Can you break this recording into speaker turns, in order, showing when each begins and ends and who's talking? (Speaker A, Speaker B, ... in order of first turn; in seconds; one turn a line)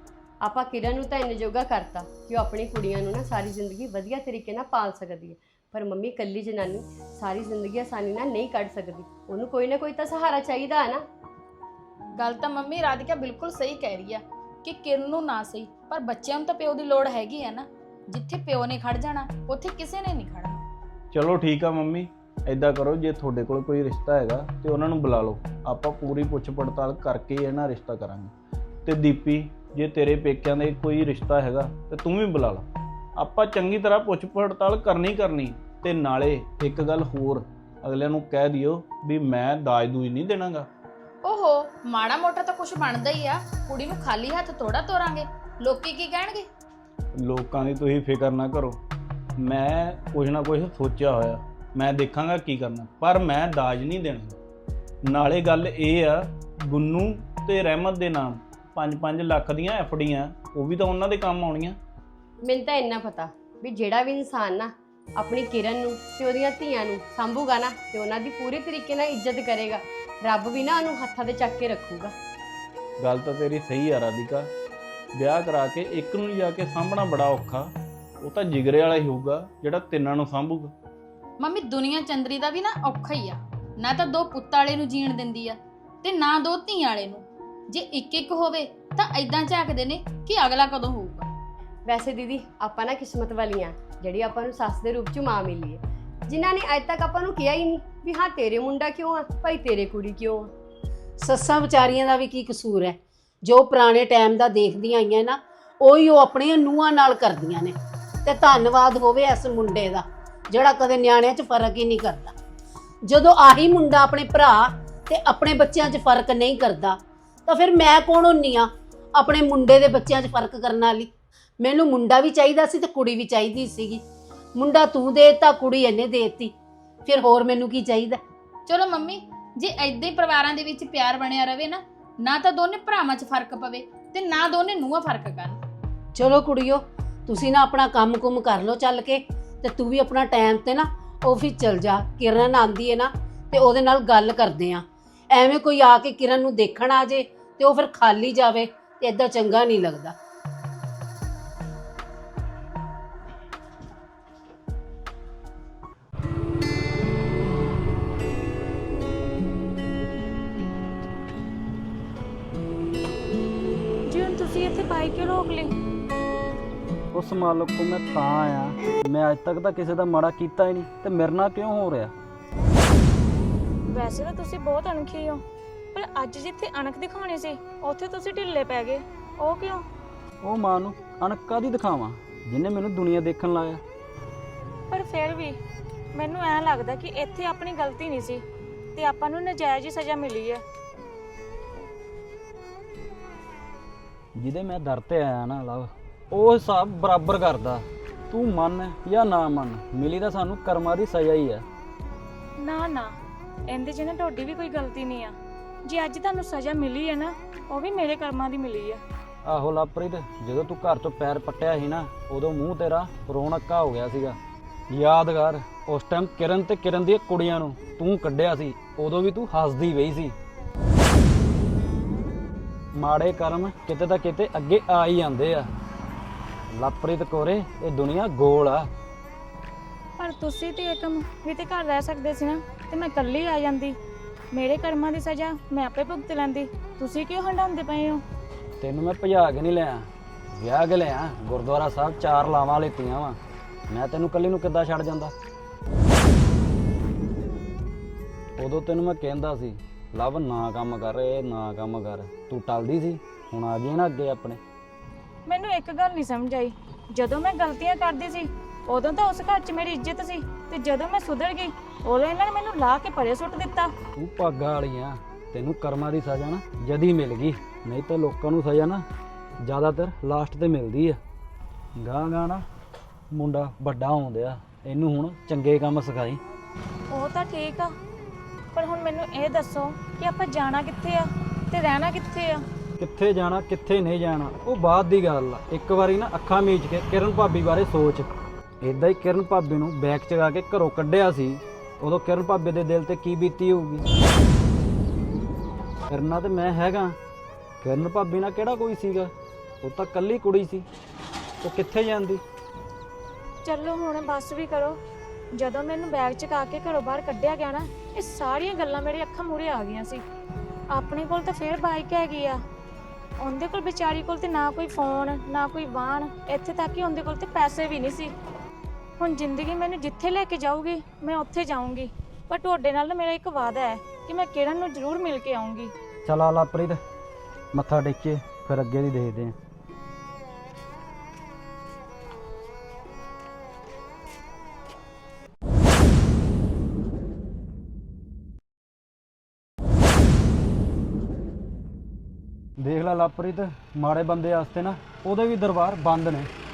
Speaker A: 0.4-11.0
Speaker B: 12.2-20.6
Speaker C: 21.1-28.3
Speaker C: 28.8-40.7
Speaker B: 41.2-46.5
Speaker C: 47.1-48.8
Speaker C: 49.4-54.4
Speaker C: 55.0-61.8
Speaker A: 62.4-72.1
Speaker C: 73.0-74.5
Speaker C: 75.1-77.7
Speaker C: 78.2-80.7
Speaker B: 81.4-91.3
Speaker A: 91.8-100.5
Speaker D: 101.2-107.7
Speaker D: 108.2-112.3
Speaker D: 113.0-121.1
Speaker D: 121.6-124.0
Speaker D: 124.5-126.5
Speaker D: 127.0-128.2
Speaker B: 128.7-135.6
Speaker D: 136.1-150.1
Speaker E: 164.1-165.7
Speaker F: 167.1-172.1
Speaker E: 173.9-175.4
Speaker E: 175.9-179.8
Speaker F: 180.4-183.8
Speaker E: 184.9-185.6
Speaker E: 186.1-188.4
Speaker E: 188.9-190.6
Speaker F: 194.3-201.6
Speaker E: 202.6-209.0
Speaker F: 209.4-214.4
Speaker F: 214.9-220.3
Speaker F: 222.9-225.7
Speaker F: 226.7-228.9
Speaker E: 230.2-234.0
Speaker E: 234.5-238.2
Speaker F: 238.8-243.4
Speaker F: 243.9-245.3
Speaker F: 248.6-254.6
Speaker E: 255.4-263.9
Speaker F: 264.2-269.0
Speaker F: 269.6-271.2
Speaker F: 271.9-272.6
Speaker F: 273.3-276.4
Speaker E: 277.1-277.9
Speaker E: 278.7-282.6
Speaker F: 283.0-288.3
Speaker F: 288.8-294.0
Speaker F: 296.1-297.2
Speaker F: 297.8-299.3
Speaker F: 299.8-300.9
Speaker F: 301.6-302.4
Speaker E: 303.6-305.0
Speaker E: 305.5-310.2
Speaker E: 310.9-312.6
Speaker E: 313.4-318.3
Speaker E: 319.2-325.9
Speaker F: 326.2-327.0
Speaker F: 327.7-329.6
Speaker F: 342.8-346.5